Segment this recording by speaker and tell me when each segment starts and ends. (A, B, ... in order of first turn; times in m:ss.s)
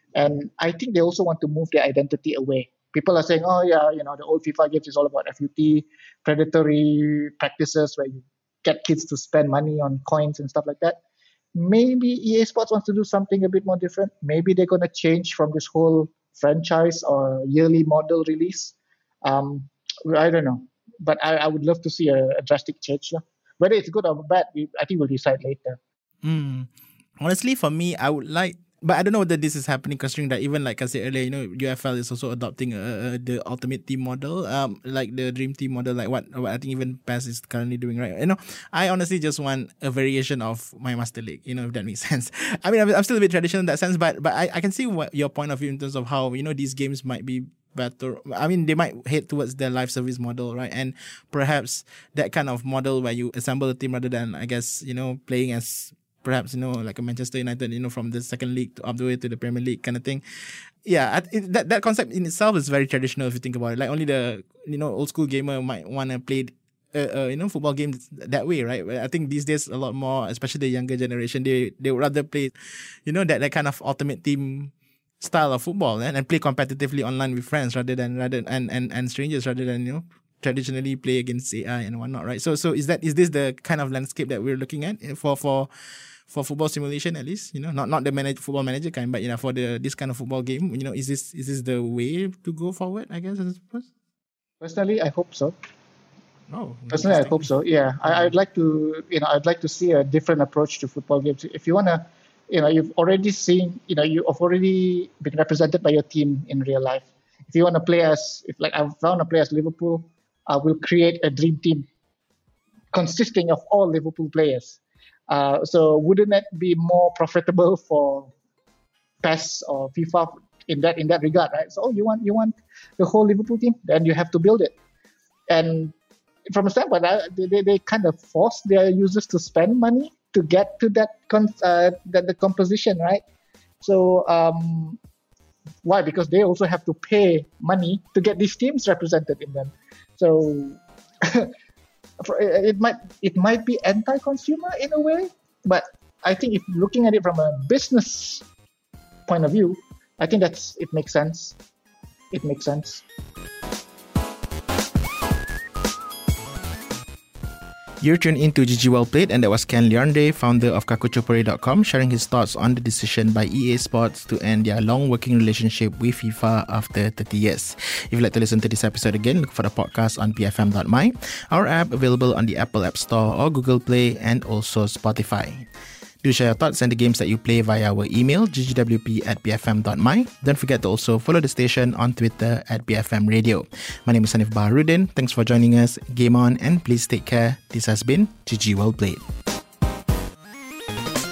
0:00.2-0:11.0 A
0:11.5-0:25.8 A
0:26.2-0:26.7 B
0:27.2-1:00.2 B
1:00.8-1:12.5 B
1:13.0-1:25.7 B
1:26.3-1:33.9 B
1:34.6-1:35.5 A
1:36.5-1:37.5 B
1:36.9-1:51.8 A
1:38.0-1:38.3 B
1:52.9-1:58.3 A
1:59.2-2:04.7 A
2:05.5-2:05.9 A
2:06.5-2:13.2 A
2:13.8-2:15.0 A
2:15.8-2:21.5 A
2:22.2-2:28.4 A
2:29.3-2:31.6 A
2:32.3-2:33.0 A
2:38.0-2:55.7 B
2:56.2-3:09.2 B